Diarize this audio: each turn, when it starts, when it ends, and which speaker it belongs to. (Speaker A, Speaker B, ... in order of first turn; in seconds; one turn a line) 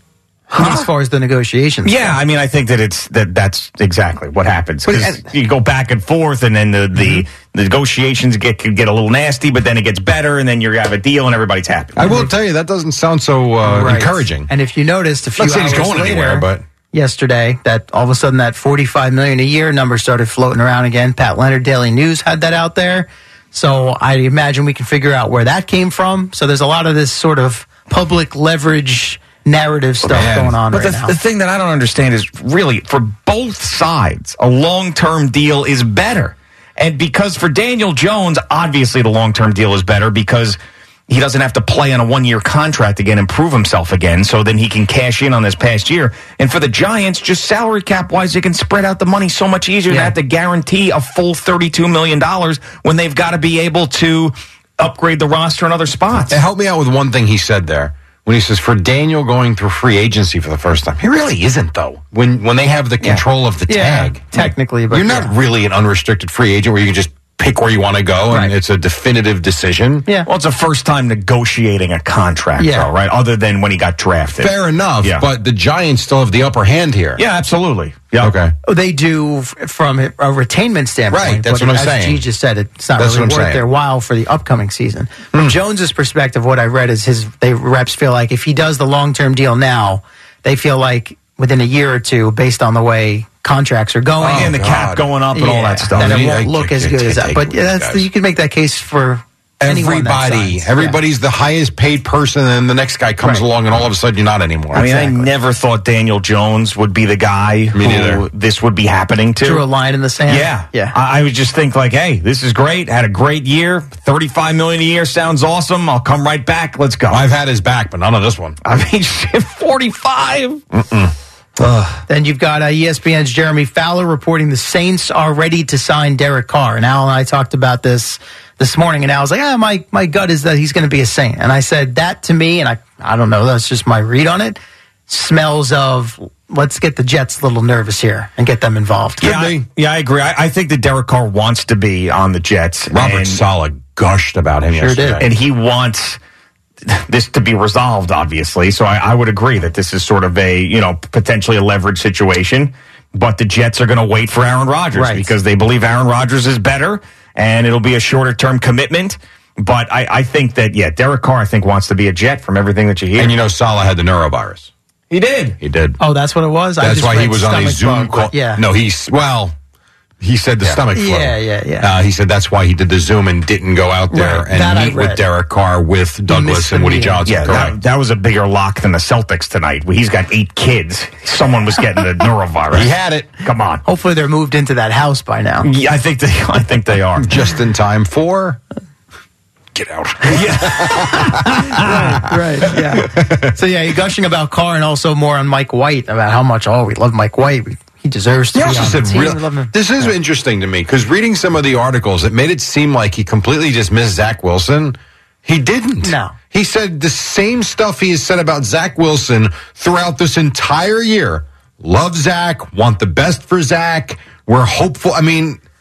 Speaker A: 0.5-0.9
Speaker B: 0.5-2.1
Speaker A: 1.9-12.1
Speaker C: 12.0-14.5
Speaker B: 13.6-31.1
Speaker C: 15.4-16.6
Speaker A: 30.0-56.4
Speaker C: 30.2-30.6
Speaker B: 49.9-50.1
Speaker C: 56.3-70.1
Speaker B: 63.7-65.3
Speaker A: 70.3-75.2
Speaker B: 72.6-72.9
Speaker C: 74.4-77.2
Speaker A: 77.2-78.3
Speaker C: 78.2-78.5
Speaker B: 78.7-94.5
Speaker C: 81.1-82.2
Speaker C: 83.0-83.7
Speaker C: 94.2-95.1
Speaker A: 94.2-96.3
Speaker B: 95.3-101.0
Speaker C: 96.0-98.1
Speaker C: 99.6-104.9
Speaker A: 104.7-109.7
Speaker B: 104.8-105.3
Speaker C: 107.8-108.2
Speaker B: 109.4-111.0
Speaker A: 110.3-117.3
Speaker C: 117.1-118.6
Speaker A: 118.6-120.6
Speaker C: 120.7-121.1
Speaker A: 121.6-122.0
Speaker B: 122.1-139.3
Speaker A: 139.2-143.4
Speaker C: 139.2-139.6
Speaker C: 142.9-145.3
Speaker B: 144.7-145.3
Speaker A: 145.2-146.2
Speaker A: 146.9-163.4
Speaker B: 154.9-155.3
Speaker C: 163.2-164.7
Speaker A: 165.1-165.6
Speaker C: 165.6-166.0
Speaker B: 166.0-168.6
Speaker C: 166.8-169.6
Speaker C: 170.2-177.8
Speaker B: 170.9-171.9
Speaker B: 174.1-175.2
Speaker B: 176.3-177.2
Speaker A: 177.2-183.8
Speaker C: 182.7-183.3
Speaker B: 183.8-185.7
Speaker A: 185.6-187.3
Speaker C: 187.2-188.6
Speaker C: 189.8-191.9
Speaker A: 190.2-192.2
Speaker B: 191.8-200.1
Speaker C: 193.2-193.5
Speaker C: 198.5-215.6
Speaker B: 206.0-206.4